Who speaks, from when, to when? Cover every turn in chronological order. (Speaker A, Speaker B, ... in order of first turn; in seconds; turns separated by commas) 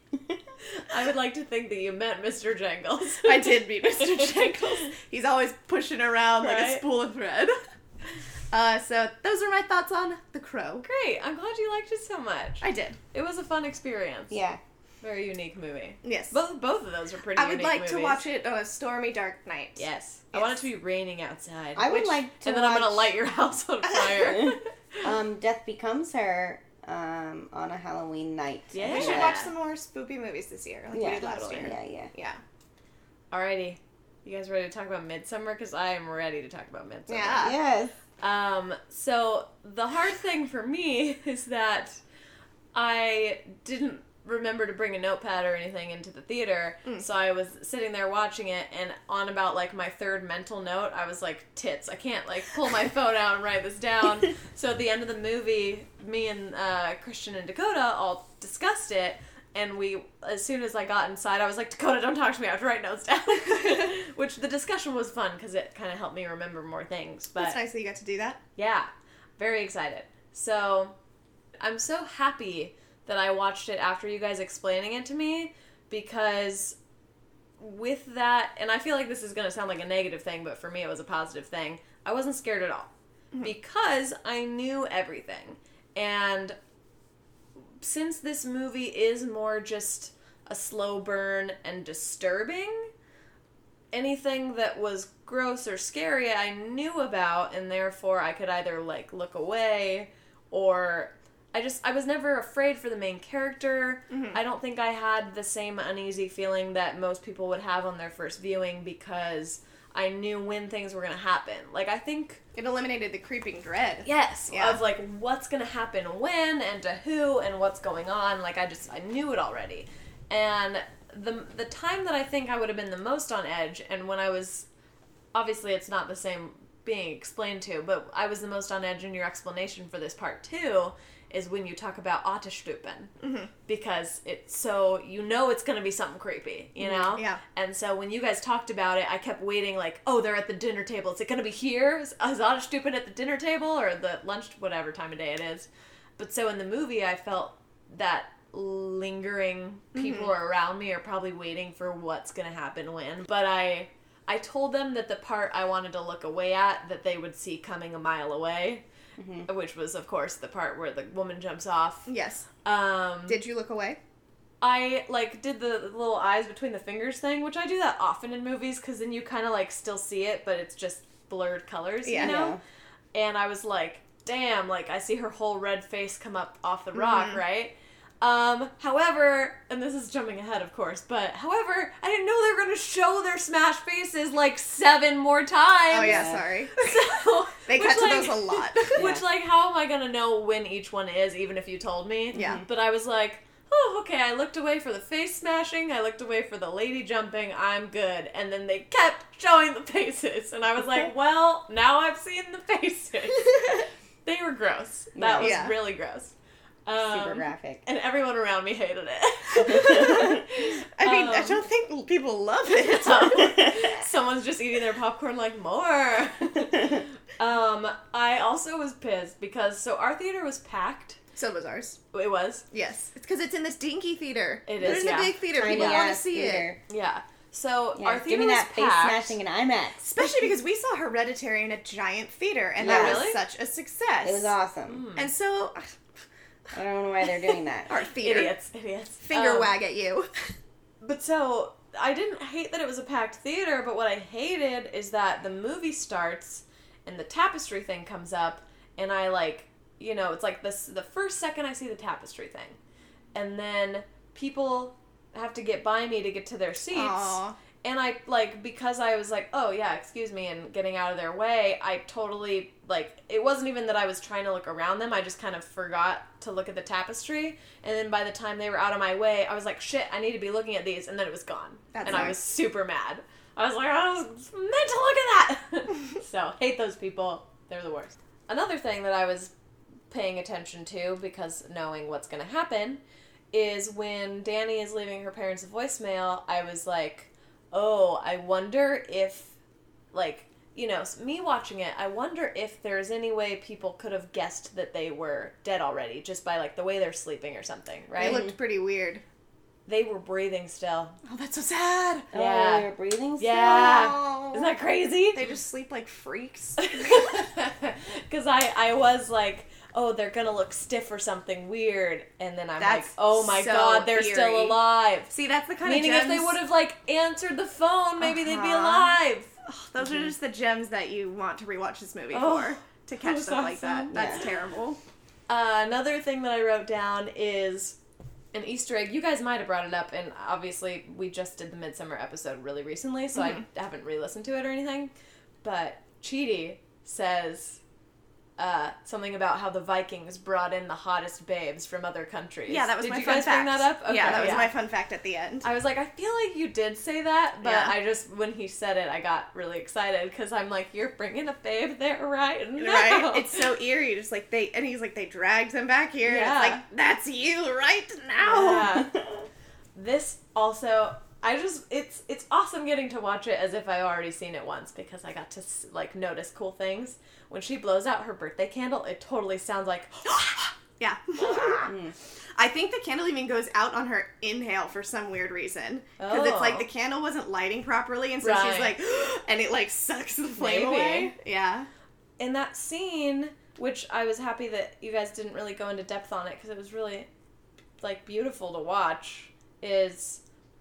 Speaker A: 0.6-4.9, Speaker B: 3.2-7.5, Speaker A: 6.4-6.8, Speaker B: 8.5-10.8, Speaker A: 10.8-14.4, Speaker B: 12.6-13.0, Speaker C: 14.3-14.6, Speaker A: 15.0-18.2, Speaker B: 16.0-16.4, Speaker B: 17.4-20.6, Speaker A: 19.8-24.7, Speaker C: 21.8-23.1, Speaker B: 24.0-24.4, Speaker C: 24.3-29.4, Speaker A: 28.7-29.5, Speaker B: 28.8-32.4, Speaker C: 30.9-32.1, Speaker A: 33.3-37.5, Speaker B: 37.1-37.5, Speaker C: 37.4-37.9, Speaker A: 38.2-42.0, Speaker A: 42.7-67.6, Speaker B: 67.4-68.4, Speaker A: 68.6-70.9, Speaker A: 71.6-76.8, Speaker A: 77.6-82.9, Speaker A: 83.4-86.5, Speaker A: 87.8-92.9, Speaker A: 93.9-112.4, Speaker B: 104.1-104.4, Speaker B: 112.5-114.8, Speaker A: 114.0-124.7, Speaker A: 125.3-133.1, Speaker B: 133.2-133.5, Speaker A: 133.7-158.8, Speaker C: 136.8-137.1, Speaker B: 149.9-150.3, Speaker C: 159.2-159.5, Speaker A: 159.4-162.1, Speaker B: 162.1-162.5, Speaker A: 162.6-163.4, Speaker B: 163.3-164.0, Speaker A: 164.6-172.6, Speaker B: 172.0-172.4, Speaker C: 172.2-172.6, Speaker A: 173.1-206.3, Speaker B: 177.0-177.4, Speaker B: 185.9-187.1, Speaker C: 185.9-186.4, Speaker B: 187.6-189.1, Speaker C: 189.0-189.2, Speaker B: 192.3-192.6, Speaker C: 205.2-205.6, Speaker B: 205.4-205.8, Speaker A: 206.8-211.6, Speaker C: 207.0-207.8, Speaker B: 209.8-210.4, Speaker B: 211.0-213.7, Speaker A: 212.8-221.2, Speaker B: 221.3-222.0, Speaker A: 222.1-222.6, Speaker B: 222.7-226.7, Speaker A: 224.7-225.4, Speaker C: 225.5-226.8, Speaker A: 226.9-229.4, Speaker C: 227.9-230.0, Speaker B: 230.0-234.6, Speaker C: 232.8-233.3, Speaker A: 232.8-233.4, Speaker C: 234.2-235.0, Speaker A: 234.9-235.3, Speaker B: 235.2-235.9, Speaker C: 236.7-237.9, Speaker B: 237.8-238.5, Speaker A: 238.2-239.7, Speaker B: 239.2-240.5, Speaker A: 241.0-252.8, Speaker A: 253.3-279.5, Speaker B: 256.9-257.6, Speaker B: 271.9-272.4, Speaker A: 280.1-283.0, Speaker A: 283.5-289.5, Speaker A: 290.1-298.4, Speaker B: 298.2-299.2, Speaker C: 298.2-298.5, Speaker A: 299.9-301.2, Speaker B: 301.2-302.3, Speaker C: 302.3-304.6, Speaker A: 302.3-305.4, Speaker B: 305.3-307.2, Speaker A: 306.8-315.3, Speaker B: 312.8-316.6, Speaker A: 315.8-319.5, Speaker B: 318.2-325.0, Speaker A: 322.3-324.1, Speaker C: 324.1-324.4, Speaker A: 325.5-327.9, Speaker A: 328.5-335.1, Speaker B: 333.3-333.6, Speaker A: 335.6-337.8, Speaker A: 338.6-344.8, Speaker B: 342.7-345.6, Speaker A: 345.6-353.7, Speaker B: 347.6-347.9, Speaker B: 352.8-359.0, Speaker A: 356.2-356.8, Speaker A: 358.4-359.2, Speaker A: 359.9-370.6, Speaker B: 370.3-371.9, Speaker A: 371.4-371.8, Speaker C: 371.8-372.1, Speaker B: 372.6-381.9, Speaker A: 376.2-376.9, Speaker A: 378.4-378.9, Speaker A: 380.6-381.3, Speaker A: 382.4-387.3, Speaker A: 388.0-390.4